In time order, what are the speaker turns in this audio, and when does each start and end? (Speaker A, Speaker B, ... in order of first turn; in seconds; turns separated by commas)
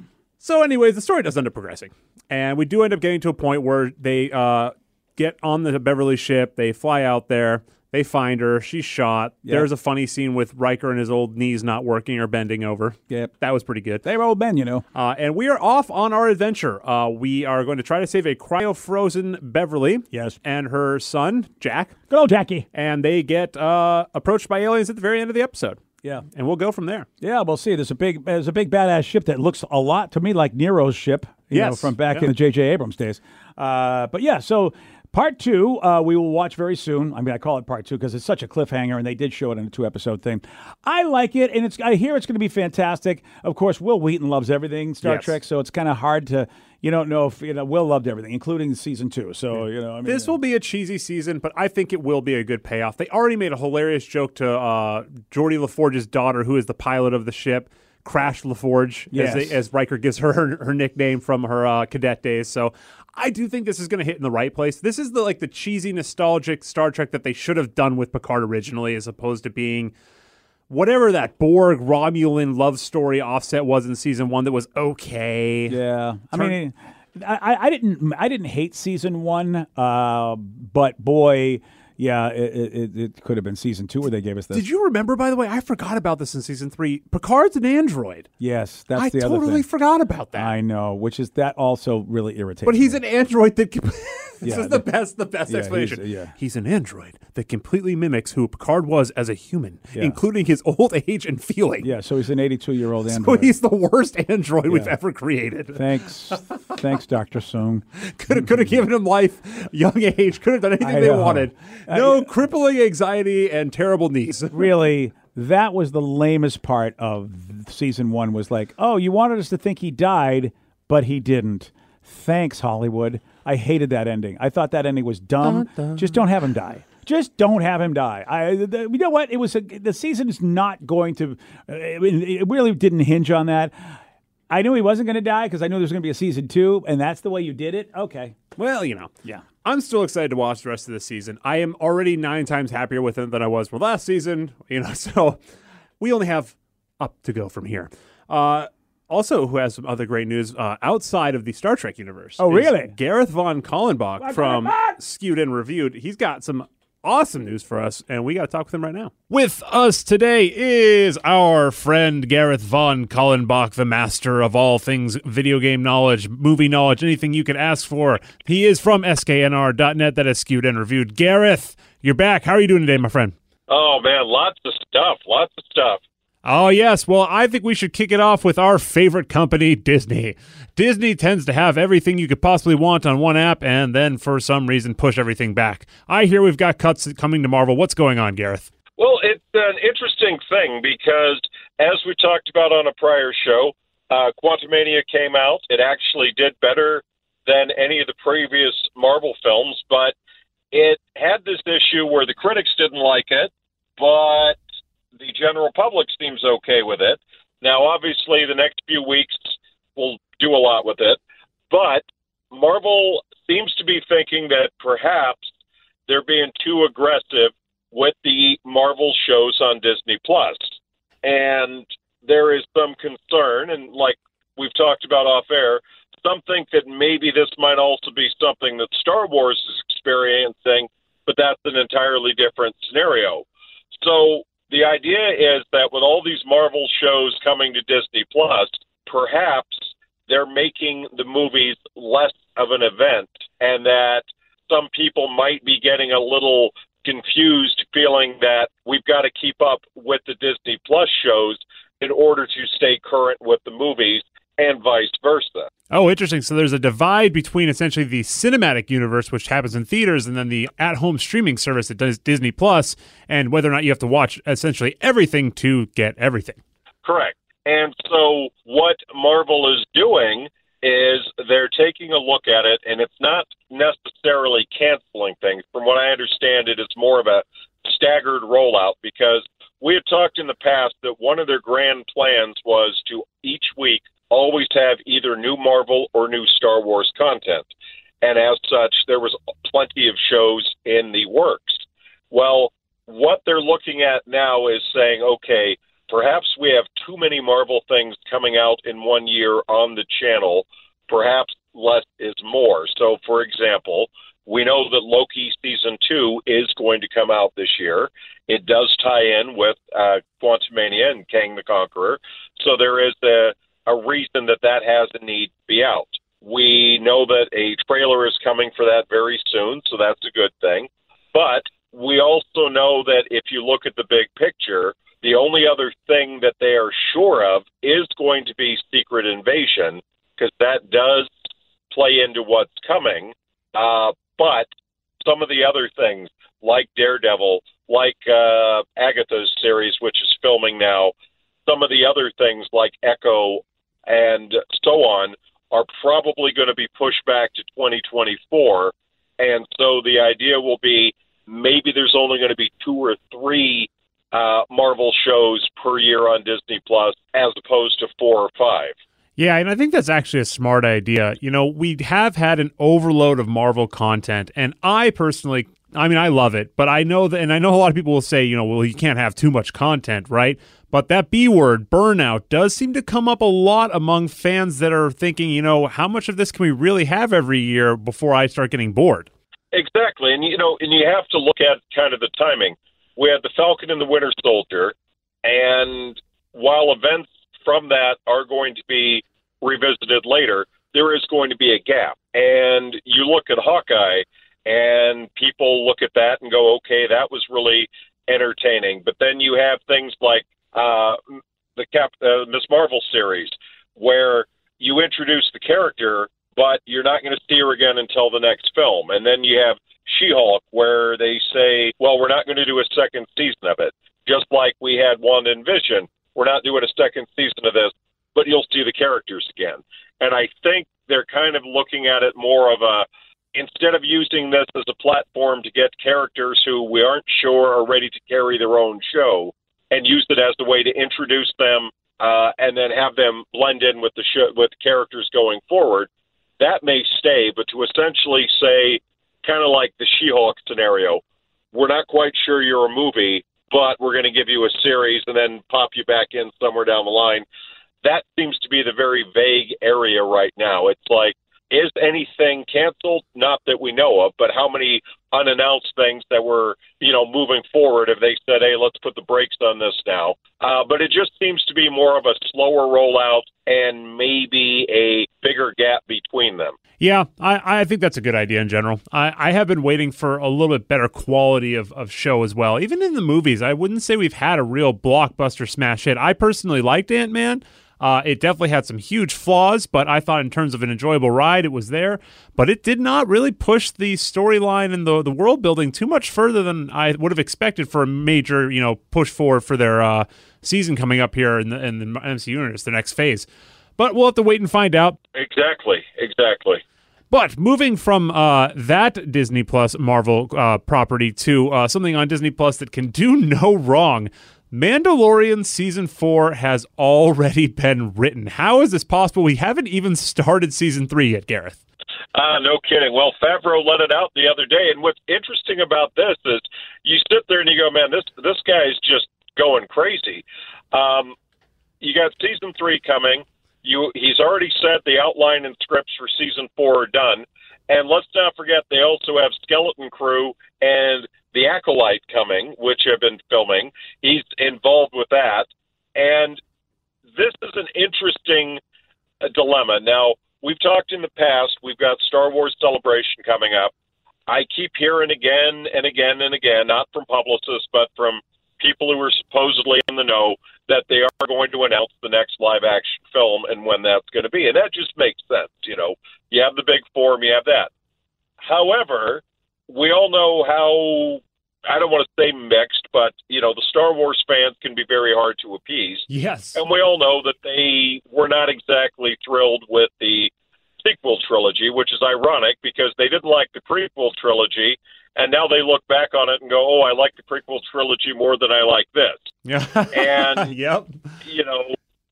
Speaker A: 0.4-14.0, Speaker B: 14.0-14.8, Speaker A: 14.9-22.0, Speaker B: 20.1-20.4, Speaker B: 22.1-22.6, Speaker A: 22.7-27.1, Speaker B: 27.2-50.4, Speaker A: 31.5-32.3, Speaker A: 45.0-45.3, Speaker A: 50.0-69.9, Speaker B: 59.1-59.6, Speaker A: 70.7-75.8, Speaker B: 75.7-84.6, Speaker A: 84.5-88.3, Speaker B: 88.4-89.6, Speaker A: 89.0-90.5, Speaker B: 90.3-93.0, Speaker A: 92.7-101.9, Speaker B: 94.4-94.8, Speaker B: 95.5-96.3, Speaker B: 101.8-103.5, Speaker A: 103.0-106.8, Speaker B: 104.7-104.9, Speaker B: 105.7-108.7, Speaker A: 108.0-114.7, Speaker B: 110.8-112.3, Speaker B: 114.5-134.0, Speaker A: 125.4-126.2, Speaker B: 134.5-138.4, Speaker A: 138.6-145.4, Speaker A: 146.0-173.3, Speaker B: 152.4-152.9, Speaker B: 154.2-155.0, Speaker C: 173.7-176.0, Speaker A: 176.4-188.7, Speaker C: 189.0-200.1, Speaker C: 200.7-204.6, Speaker C: 205.2-211.2, Speaker C: 211.7-215.5, Speaker C: 216.1-220.7, Speaker C: 221.2-255.7, Speaker A: 255.9-266.6, Speaker C: 267.0-287.7, Speaker C: 288.2-331.3, Speaker C: 331.9-334.7, Speaker C: 335.2-341.1, Speaker C: 341.6-358.9, Speaker A: 359.4-379.3, Speaker C: 379.7-401.2, Speaker C: 401.8-441.2, Speaker C: 441.7-447.4, Speaker C: 448.0-466.7, Speaker A: 467.0-493.4, Speaker A: 494.0-495.2, Speaker C: 495.3-496.8, Speaker A: 497.3-511.8, Speaker C: 512.3-521.3, Speaker C: 522.0-536.6, Speaker C: 537.3-538.8, Speaker C: 539.4-543.9, Speaker C: 544.5-557.9, Speaker C: 558.6-570.5, Speaker A: 566.3-566.8, Speaker C: 571.0-579.4, Speaker A: 579.6-581.1, Speaker C: 580.1-580.7, Speaker C: 581.4-581.9